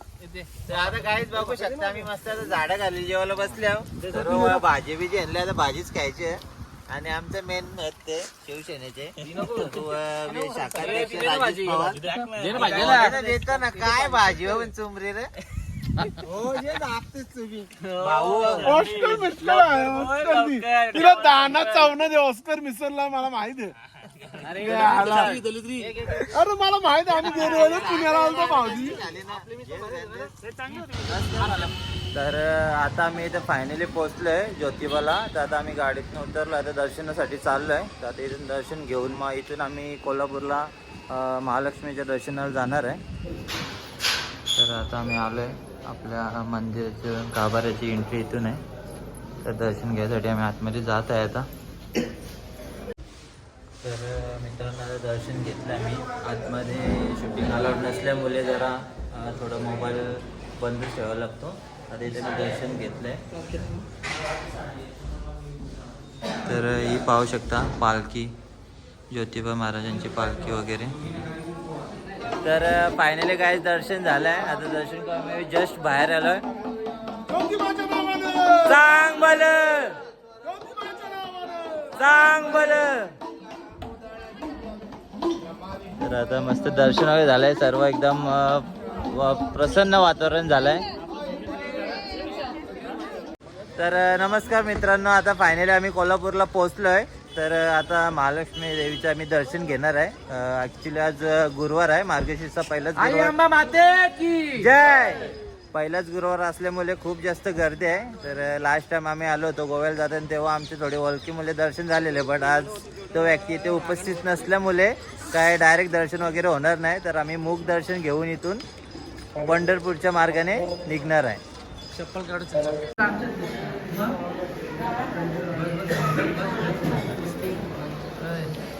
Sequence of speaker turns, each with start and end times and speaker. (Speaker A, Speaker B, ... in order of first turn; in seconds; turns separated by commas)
Speaker A: 0.6-15.3, Speaker B: 9.2-9.7, Speaker B: 10.6-13.2, Speaker C: 12.2-12.9, Speaker A: 16.2-18.9, Speaker B: 17.8-22.0, Speaker C: 18.6-23.7, Speaker B: 24.4-25.9, Speaker C: 24.5-25.4, Speaker A: 25.8-26.3, Speaker C: 26.2-29.1, Speaker B: 27.2-28.1, Speaker A: 27.2-30.3, Speaker B: 29.4-31.6, Speaker A: 30.9-43.0, Speaker A: 44.5-48.6, Speaker A: 49.4-51.5, Speaker A: 53.8-63.2, Speaker A: 66.4-68.3, Speaker A: 69.1-71.0, Speaker A: 72.4-76.4, Speaker C: 77.3-78.7, Speaker A: 78.6-80.0, Speaker C: 80.5-81.8, Speaker A: 81.9-83.1, Speaker A: 86.0-90.9, Speaker A: 93.8-103.3, Speaker B: 103.0-104.7, Speaker A: 104.5-118.6, Speaker A: 119.4-121.4, Speaker B: 122.0-123.2, Speaker B: 125.8-127.5, Speaker B: 128.2-128.5